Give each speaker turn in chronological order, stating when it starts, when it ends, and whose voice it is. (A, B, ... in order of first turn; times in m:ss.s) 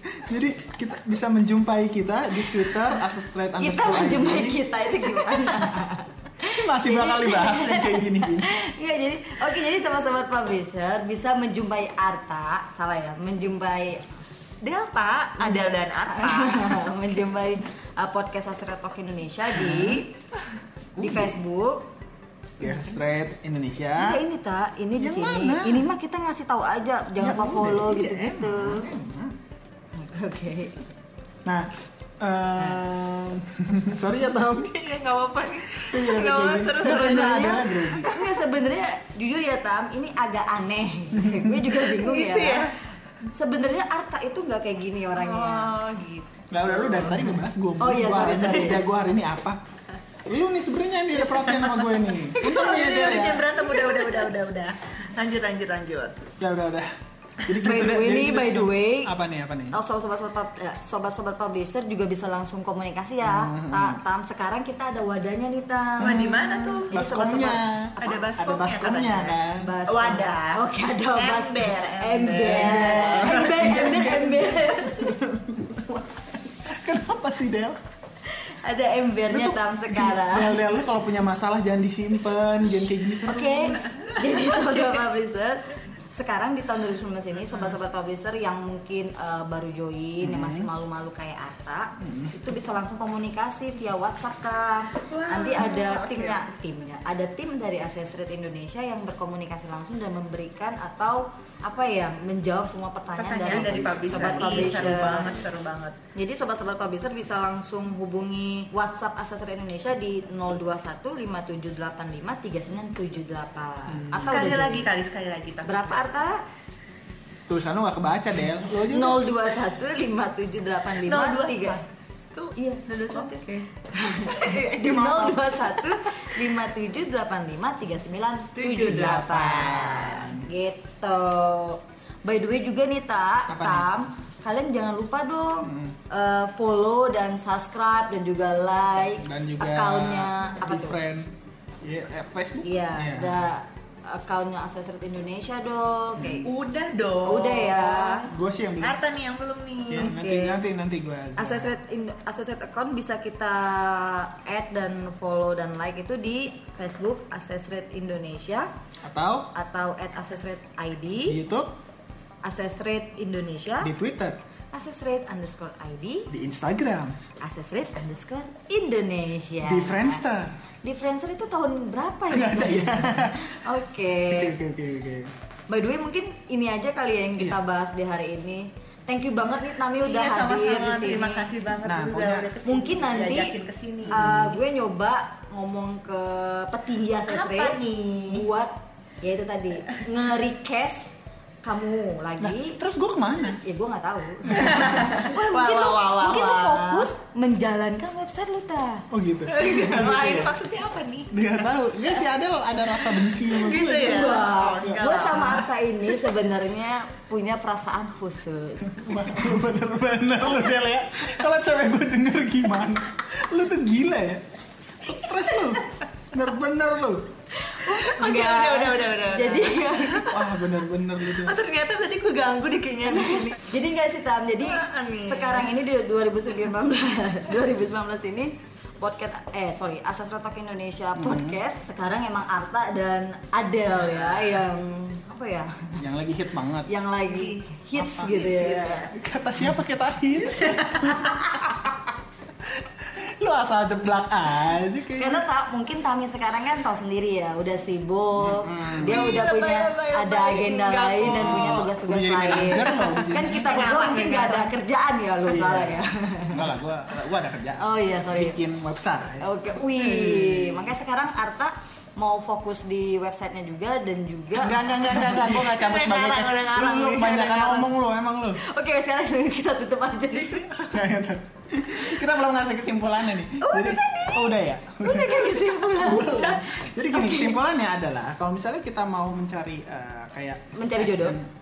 0:00.1-0:04.6 A
0:02.4-0:02.8 B
0:03.6-0:14.0 B
0:05.4-0:05.7 A
0:06.4-0:08.5 A
0:14.6-0:16.8 C
0:15.4-0:20.1 B
0:19.5-0:20.0 A
0:21.0-0:21.4 A
0:21.0-0:21.9 B
0:22.6-0:24.2 A
0:24.0-0:28.9 B
0:25.0-0:25.9 A
0:27.2-0:29.4 A
0:30.0-0:30.8 B
0:31.4-0:34.8 A
0:34.4-0:37.7 C
0:35.7-0:38.1 A
0:36.8-0:42.7 B
0:41.1-0:41.6 A
0:41.8-0:42.7 C
0:43.3-0:45.7 B
0:45.1-0:47.3 C
0:46.5-0:49.6 A
0:47.8-0:48.8 B
0:50.2-0:53.5 A
0:51.3-0:56.3 C
0:56.4-0:56.9 A
0:57.4-0:59.8 A
0:57.6-0:59.1 B
0:59.7-1:08.2 B
1:03.2-1:04.0 A
1:06.0-1:06.9 C
1:06.0-1:09.7 A
1:08.0-1:10.6 C
1:09.6-1:15.5 B
1:11.1-1:14.3 C
1:12.4-1:17.8 A
1:18.3-1:20.7 B
1:19.3-1:23.8 A
1:23.2-1:45.4 B
1:23.9-1:24.8 C
1:30.2-1:30.7 A
1:32.0-1:32.4 A
1:35.1-1:36.5 C
1:43.2-1:46.0 C
1:43.5-1:45.5 A
1:46.1-1:54.9 B
1:53.9-1:54.7 A
1:54.2-1:56.1 C
1:55.6-1:56.4 B
1:57.5-1:59.3 A
1:58.8-2:01.8 B
2:01.0-2:01.8 C
2:02.3-2:06.4 C
2:02.6-2:21.0 B
2:08.6-2:10.0 C
2:09.5-2:10.4 A
2:13.5-2:13.9 A
2:15.6-2:16.0 A
2:19.2-2:23.4 A
2:22.6-2:26.5 B
2:26.2-2:26.4 A
2:26.4-2:28.3 C
2:27.2-2:28.3 B
2:28.3-2:29.0 A
2:28.8-2:30.1 C
2:29.9-2:31.7 A
2:29.9-2:30.6 B
2:31.4-2:38.7 B
2:39.0-2:39.5 A
2:39.5-2:41.4 B
2:41.2-2:41.7 A
2:42.4-2:43.9 B
2:43.8-2:44.4 A
2:44.7-2:46.3 B
2:46.3-2:47.2 A
2:47.4-2:50.2 B
2:49.6-2:50.6 A
2:50.8-2:54.5 B
2:52.3-2:53.6 A
2:54.3-2:55.3 A
2:55.7-3:01.4 B
3:00.0-3:04.4 C
3:01.8-3:02.5 A
3:02.6-3:03.5 B
3:04.1-3:04.5 A
3:04.1-3:12.8 B
3:07.3-3:08.5 C
3:12.4-3:13.6 A
3:13.5-3:19.1 B
3:14.4-3:14.8 A
3:14.5-3:17.1 C
3:19.1-3:20.5 A
3:19.5-3:21.5 C
3:21.3-3:25.6 A
3:23.0-3:25.6 C
3:23.6-3:29.5 B
3:28.8-3:34.4 A
3:35.0-3:37.3 A
3:37.5-3:40.4 B
3:37.8-3:40.4 C
3:40.3-3:41.6 A
3:41.2-3:43.6 C
3:43.1-3:56.0 B
3:44.6-3:45.7 C
3:51.1-3:51.6 A
3:54.1-3:54.5 A
3:56.0-3:56.9 A
3:56.9-3:59.1 B
3:57.3-3:59.1 C
3:59.1-4:05.4 A
4:00.5-4:01.3 C
4:05.2-4:16.7 B
4:08.4-4:09.4 A
4:09.0-4:11.9 C
4:11.2-4:13.9 A
4:12.5-4:14.7 C
4:15.4-4:19.5 A
4:17.8-4:18.6 B
4:19.4-4:25.4 B
4:20.4-4:20.9 A
4:24.6-4:28.6 A
4:25.2-4:27.9 C
4:28.6-4:30.7 B
4:30.3-4:30.8 C
4:30.8-4:41.5 A
4:33.6-4:37.6 B
4:36.2-4:36.7 C
4:40.7-4:41.4 B